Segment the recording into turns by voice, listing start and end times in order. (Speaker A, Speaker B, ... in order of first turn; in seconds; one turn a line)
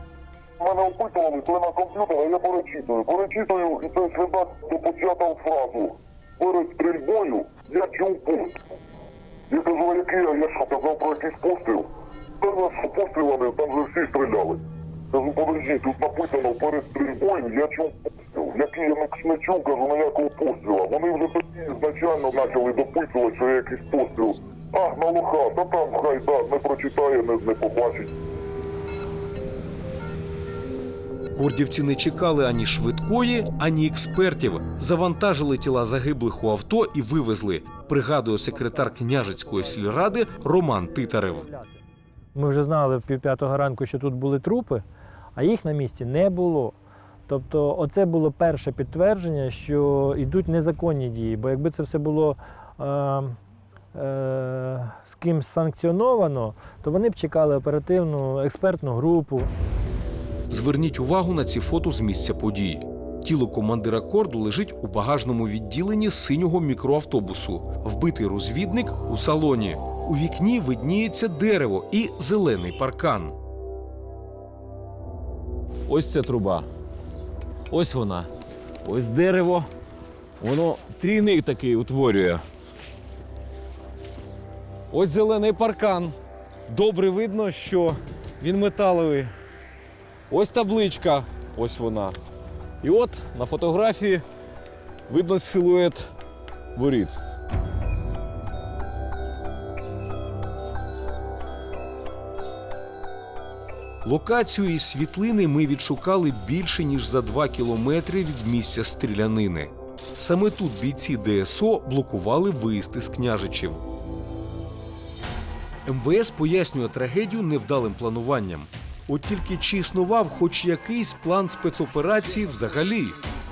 Speaker A: 0.6-8.6
Speaker A: 9.5-11.9
Speaker A: 12.4-28.1
Speaker B: 31.3-41.5
Speaker C: 42.4-44.8
Speaker C: 45.4-46.8
Speaker C: 47.3-53.4
Speaker C: 53.9-59.5
Speaker B: 60.5-73.3
Speaker D: 75.9-76.7
Speaker D: 77.7-78.3
Speaker D: 78.8-79.7
Speaker D: 80.4-82.4
Speaker D: 84.9-86.1
Speaker D: 86.7-89.3
Speaker D: 90.3-92.2
Speaker D: 92.8-94.2
Speaker D: 95.1-96.1
Speaker D: 96.7-97.2
Speaker B: 104.0-113.8
Speaker B: 115.8-123.2